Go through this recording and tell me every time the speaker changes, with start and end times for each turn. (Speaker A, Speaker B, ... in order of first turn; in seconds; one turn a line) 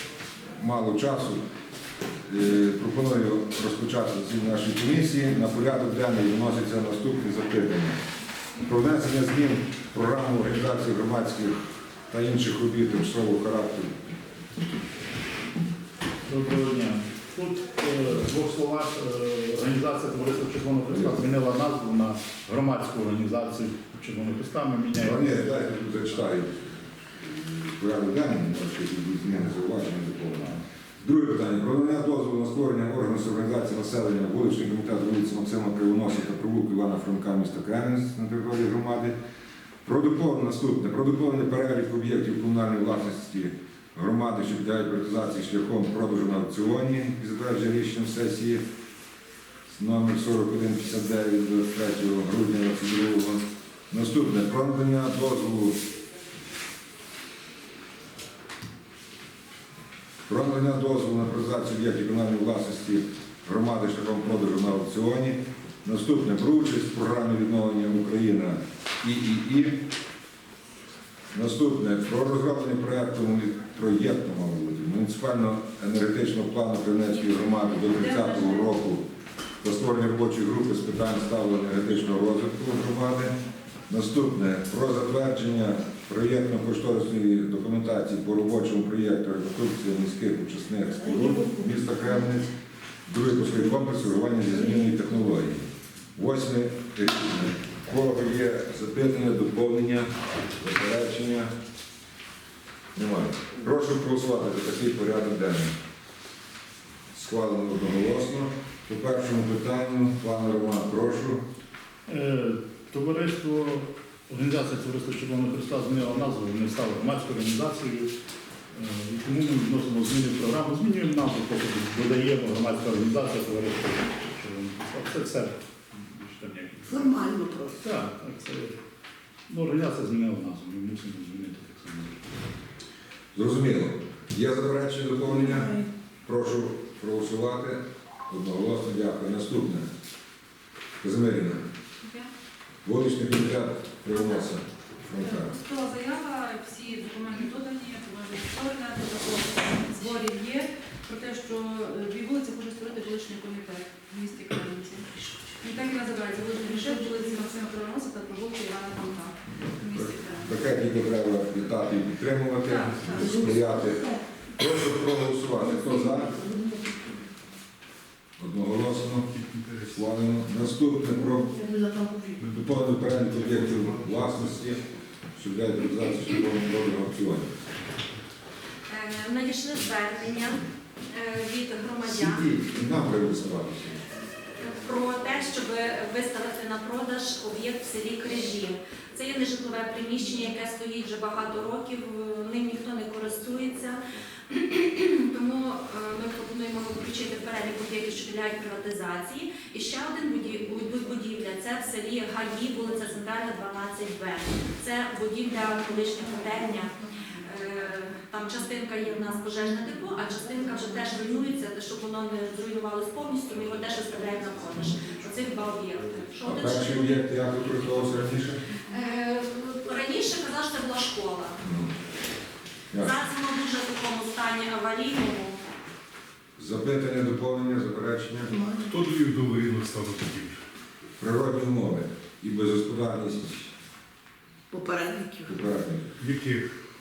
Speaker A: 0.6-1.4
Speaker A: 2.3-8.0
Speaker A: 8.6-11.6
Speaker A: 12.1-13.9
Speaker B: 16.3-25.6
Speaker A: 20.9-21.2
Speaker A: 25.0-39.1
Speaker A: 39.8-48.6
Speaker A: 49.7-55.8
Speaker A: 60.3-69.8
Speaker A: 71.3-79.0
Speaker C: 77.8-78.7
Speaker A: 79.6-83.3
Speaker A: 83.9-92.5
Speaker D: 91.2-91.8
Speaker A: 93.0-101.5
Speaker A: 102.9-105.7
Speaker A: 107.1-111.4
Speaker B: 112.1-118.1
Speaker B: 118.7-127.2
Speaker D: 126.8-127.8
Speaker B: 127.7-128.8
Speaker B: 129.5-132.2
Speaker A: 133.3-135.7
Speaker D: 135.3-135.9
Speaker A: 136.2-139.9
Speaker A: 141.0-141.6
Speaker C: 142.0-142.3
Speaker A: 142.8-145.5
Speaker C: 144.2-144.4
Speaker C: 145.2-155.1
Speaker C: 155.6-160.5
Speaker A: 159.6-166.4
Speaker C: 162.6-163.2
Speaker D: 163.0-164.2
Speaker D: 165.6-167.2
Speaker A: 168.4-169.3
Speaker E: 169.3-170.1
Speaker A: 169.9-171.5
Speaker D: 171.1-172.4
Speaker E: 172.4-174.7
Speaker A: 172.5-174.8
Speaker A: 175.3-177.5
Speaker F: 178.9-182.4
Speaker A: 182.1-184.0
Speaker F: 184.6-217.3
Speaker A: 216.4-218.6
Speaker F: 218.9-221.6
Speaker A: 221.6-221.9
Speaker A: 222.9-223.2
Speaker F: 223.0-225.6
Speaker A: 226.6-228.5
Speaker D: 228.5-229.0
Speaker E: 228.8-230.6
Speaker A: 231.2-233.7
Speaker D: 234.7-235.5
Speaker A: 235.4-236.1
Speaker E: 236.2-236.7